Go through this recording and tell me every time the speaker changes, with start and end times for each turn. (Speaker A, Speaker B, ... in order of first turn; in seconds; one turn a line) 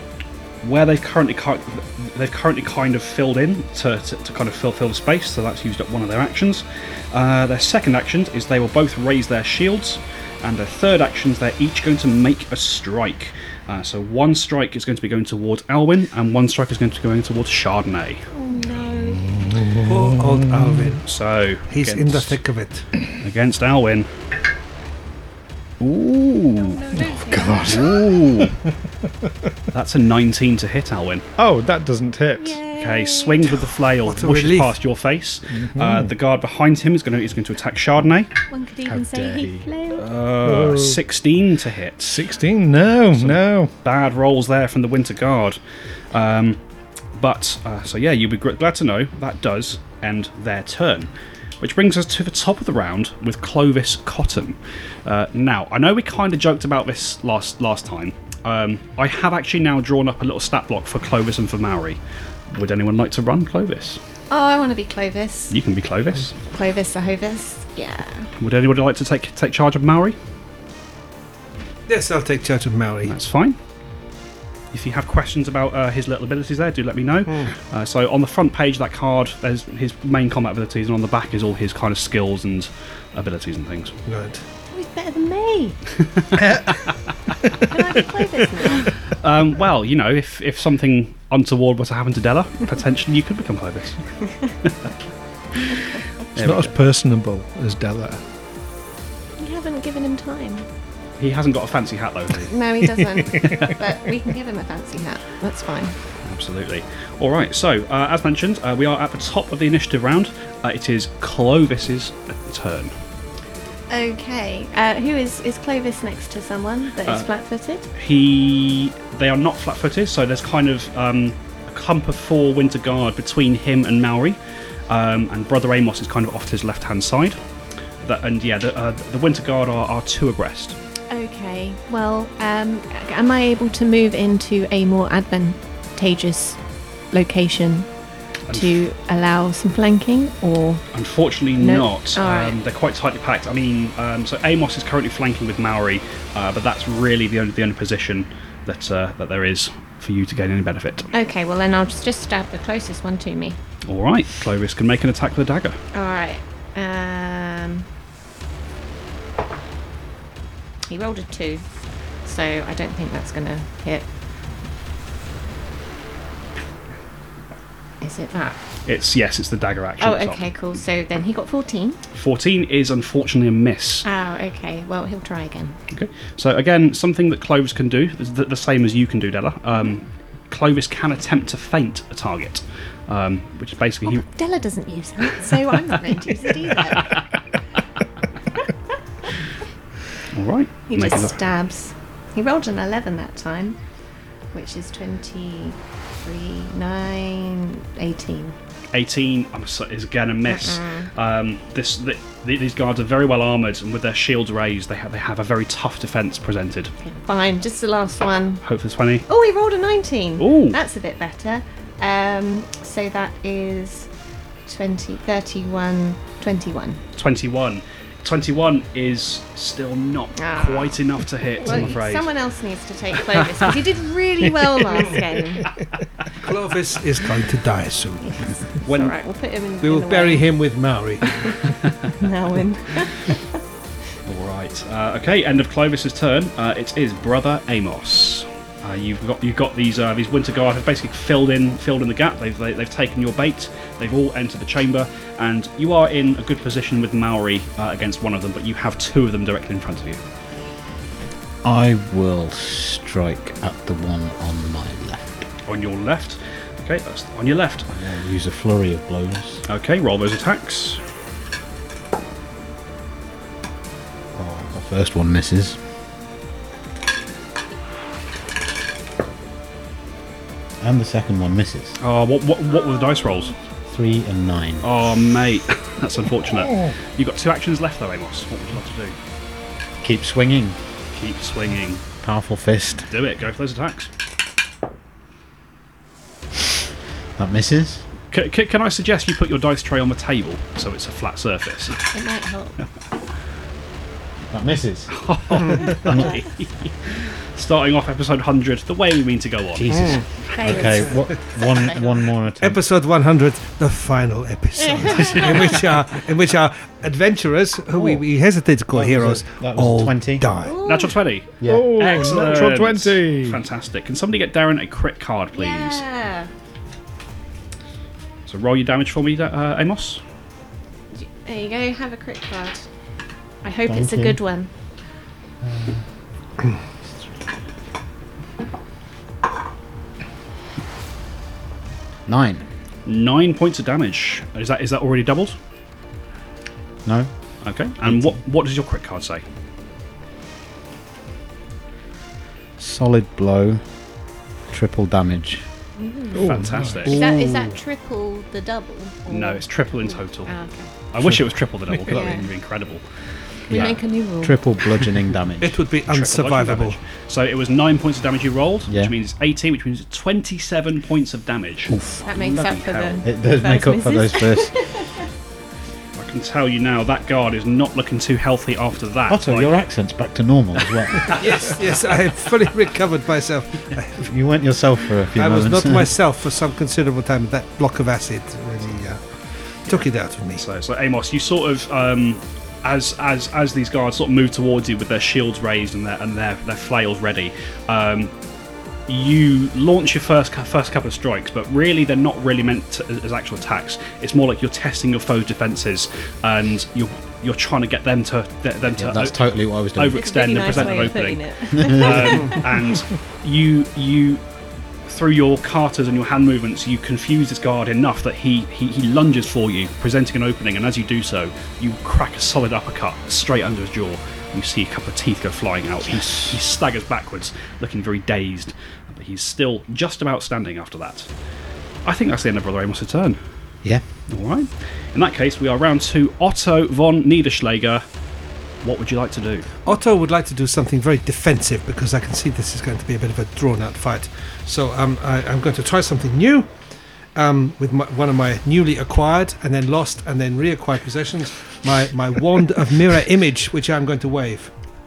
Speaker A: 0.6-18.2
Speaker B: 18.3-19.3
Speaker C: 18.9-21.0
Speaker D: 19.8-21.0
Speaker A: 21.1-22.4
Speaker D: 21.7-22.9
Speaker A: 23.1-24.1
Speaker A: 25.8-26.8
Speaker B: 26.6-28.1
Speaker C: 26.9-28.6
Speaker A: 27.6-28.5
Speaker A: 29.7-31.2
Speaker C: 31.4-32.6
Speaker B: 32.4-33.5
Speaker A: 32.8-38.3
Speaker D: 34.0-34.7
Speaker C: 35.5-36.1
Speaker B: 38.5-40.0
Speaker C: 38.8-39.7
Speaker A: 39.9-42.2
Speaker C: 40.4-41.0
Speaker C: 42.0-43.7
Speaker A: 43.1-45.6
Speaker A: 46.1-46.6
Speaker A: 47.1-62.0
Speaker A: 62.5-64.0
Speaker B: 64.3-65.6
Speaker A: 65.5-66.3
Speaker B: 66.5-68.3
Speaker A: 68.4-70.2
Speaker D: 71.9-73.1
Speaker A: 73.0-73.6
Speaker A: 74.7-84.0
Speaker D: 77.3-77.5
Speaker D: 84.1-84.4
Speaker B: 84.7-85.8
Speaker A: 86.1-86.9
Speaker C: 86.3-86.7
Speaker B: 87.6-88.9
Speaker A: 88.7-94.7
Speaker A: 96.3-96.7
Speaker C: 96.3-98.2
Speaker B: 99.4-100.7
Speaker A: 101.2-102.6
Speaker B: 102.5-106.0
Speaker A: 106.2-112.9
Speaker B: 113.9-117.9
Speaker A: 117.9-124.4
Speaker A: 124.9-127.3
Speaker A: 128.0-130.8
Speaker B: 131.1-136.6
Speaker B: 137.1-137.9
Speaker A: 138.5-138.8
Speaker B: 138.5-140.8
Speaker A: 140.9-151.1
Speaker B: 141.6-142.6
Speaker B: 151.1-153.6
Speaker A: 153.8-155.8
Speaker B: 155.9-157.8
Speaker B: 160.9-161.6
Speaker B: 162.2-164.1
Speaker B: 168.0-168.6
Speaker A: 168.8-170.4
Speaker B: 170.0-172.0
Speaker A: 172.1-174.1
Speaker B: 174.0-175.8
Speaker A: 175.9-184.2
Speaker B: 184.0-187.2
Speaker A: 187.0-187.2
Speaker A: 190.3-191.4
Speaker B: 190.9-193.8
Speaker B: 194.5-198.6
Speaker A: 198.9-206.9
Speaker B: 200.5-201.1
Speaker B: 207.0-208.6
Speaker A: 208.6-209.3
Speaker B: 209.3-214.1
Speaker A: 210.4-210.8
Speaker B: 214.7-217.0
Speaker A: 217.2-222.3
Speaker B: 220.4-221.0
Speaker B: 221.6-225.7
Speaker D: 226.3-228.4
Speaker B: 228.2-230.5
Speaker D: 229.8-231.6
Speaker B: 232.2-233.4
Speaker A: 234.2-250.2
Speaker E: 251.6-255.4
Speaker A: 255.7-257.9
Speaker E: 257.9-259.6
Speaker A: 259.7-261.0
Speaker E: 264.3-265.8
Speaker E: 270.8-272.0
Speaker A: 272.0-273.5
Speaker E: 273.9-274.9
Speaker A: 274.8-279.1
Speaker E: 280.0-280.8
Speaker A: 281.1-282.0
Speaker E: 282.2-283.1
Speaker A: 283.1-284.1
Speaker E: 287.4-288.0
Speaker A: 288.3-292.1
Speaker B: 292.1-292.8
Speaker E: 294.5-296.4
Speaker A: 295.1-300.5
Speaker E: 299.7-302.8
Speaker B: 300.5-302.1
Speaker D: 302.6-310.8
Speaker B: 304.8-305.7
Speaker E: 307.9-308.2
Speaker E: 308.9-310.5
Speaker B: 310.6-311.2
Speaker A: 310.8-316.0
Speaker E: 311.6-312.4
Speaker C: 311.6-313.6
Speaker B: 315.5-316.5
Speaker A: 318.5-320.2
Speaker B: 321.1-322.9
Speaker B: 323.6-324.7
Speaker E: 323.9-324.4
Speaker E: 325.6-326.0
Speaker E: 332.2-332.6
Speaker A: 333.1-335.5
Speaker A: 337.6-339.4
Speaker E: 338.0-338.4
Speaker E: 342.8-343.8
Speaker E: 344.7-345.6
Speaker B: 346.0-346.4
Speaker A: 346.3-347.2
Speaker C: 346.4-347.0
Speaker B: 347.0-350.9
Speaker D: 347.1-347.7
Speaker A: 349.3-350.5
Speaker A: 351.1-353.0
Speaker B: 352.1-352.5
Speaker B: 353.7-354.6
Speaker E: 353.7-355.8
Speaker D: 355.6-357.0
Speaker A: 356.1-363.1
Speaker E: 358.9-359.1
Speaker E: 361.9-362.3
Speaker B: 362.2-365.2
Speaker E: 363.2-364.8
Speaker A: 366.2-369.8
Speaker E: 369.3-371.7
Speaker D: 371.3-374.3
Speaker E: 374.2-376.1
Speaker D: 375.3-379.2
Speaker D: 379.8-380.6
Speaker A: 380.6-388.3
Speaker A: 389.1-404.4
Speaker E: 398.9-401.2
Speaker B: 400.1-402.6
Speaker E: 401.7-402.5
Speaker A: 405.1-421.3
Speaker A: 422.0-423.4
Speaker A: 424.3-428.0
Speaker A: 428.8-429.7
Speaker D: 429.8-436.7
Speaker D: 437.3-444.7